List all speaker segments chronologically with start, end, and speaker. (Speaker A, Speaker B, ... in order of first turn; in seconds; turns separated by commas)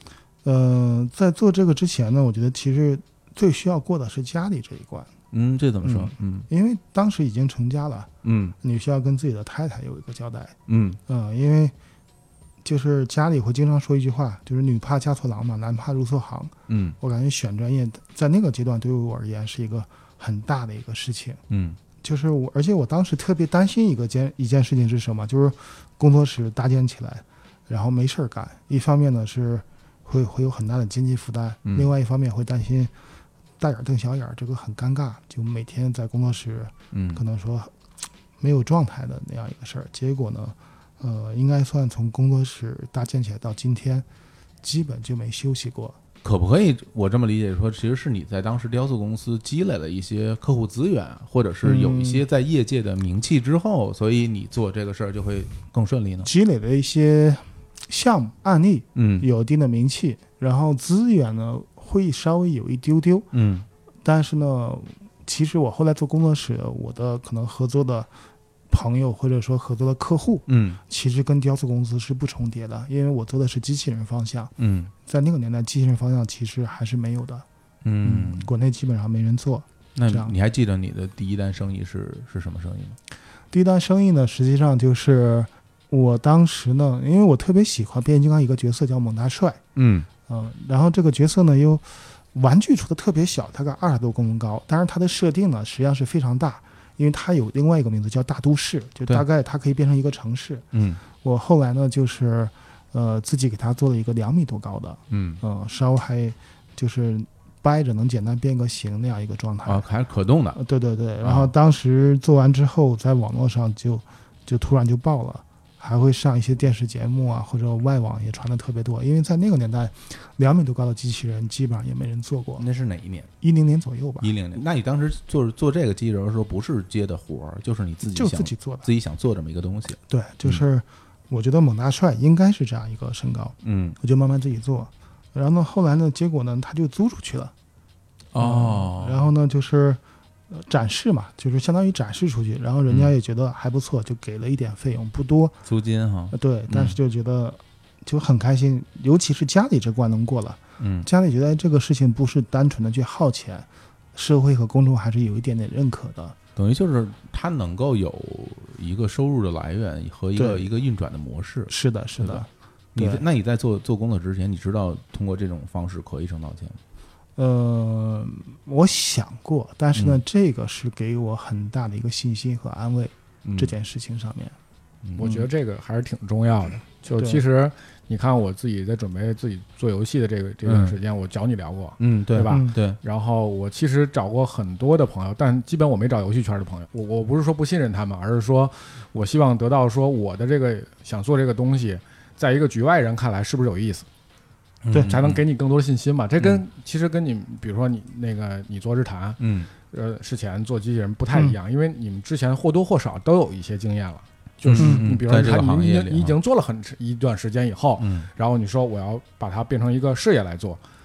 Speaker A: 0.4-5.1, Speaker B: 5.3-6.5, Speaker A: 5.8-8.1, Speaker B: 8.2-8.6, Speaker A: 8.6-10.6, Speaker B: 10.7-11.0, Speaker A: 11.1-11.7, Speaker A: 12.6-21.4, Speaker B: 16.7-17.0, Speaker B: 21.5-21.8, Speaker A: 22.0-32.9, Speaker A: 33.6-37.7, Speaker B: 36.9-37.2, Speaker A: 38.4-44.0, Speaker A: 44.6-46.0, Speaker B: 46.2-56.3, Speaker A: 51.6-52.2, Speaker A: 56.2-63.3, Speaker B: 58.9-59.3, Speaker B: 63.3-63.7, Speaker A: 64.0-68.1, Speaker A: 68.7-74.5, Speaker B: 70.5-70.8, Speaker B: 74.6-74.9, Speaker A: 75.0-77.4, Speaker B: 77.8-78.5, Speaker A: 78.0-80.3, Speaker B: 80.0-83.0, Speaker A: 83.5-89.6, Speaker B: 89.8-90.1, Speaker A: 90.3-109.8, Speaker B: 100.7-101.0, Speaker B: 105.1-105.4, Speaker B: 109.6-110.6, Speaker A: 110.5-122.6, Speaker B: 111.2-111.5, Speaker B: 122.6-123.3, Speaker A: 123.4-124.3, Speaker B: 124.2-130.6, Speaker A: 128.1-128.9, Speaker A: 130.1-137.5, Speaker B: 133.6-134.0, Speaker B: 138.3-139.3, Speaker A: 138.4-145.6, Speaker B: 145.7-147.0, Speaker A: 146.3-156.3, Speaker B: 150.8-151.1, Speaker B: 156.6-166.8, Speaker A: 160.3-160.6, Speaker A: 161.7-163.2, Speaker A: 167.4-174.6, Speaker B: 169.9-170.2, Speaker B: 173.4-173.7, Speaker C: 175.2-194.1, Speaker A: 175.2-175.5, Speaker A: 177.2-177.4, Speaker B: 180.6-181.0, Speaker B: 182.0-183.0, Speaker B: 194.8-195.4, Speaker C: 195.1-210.8, Speaker B: 199.4-199.7, Speaker B: 204.6-206.4, Speaker B: 208.0-208.3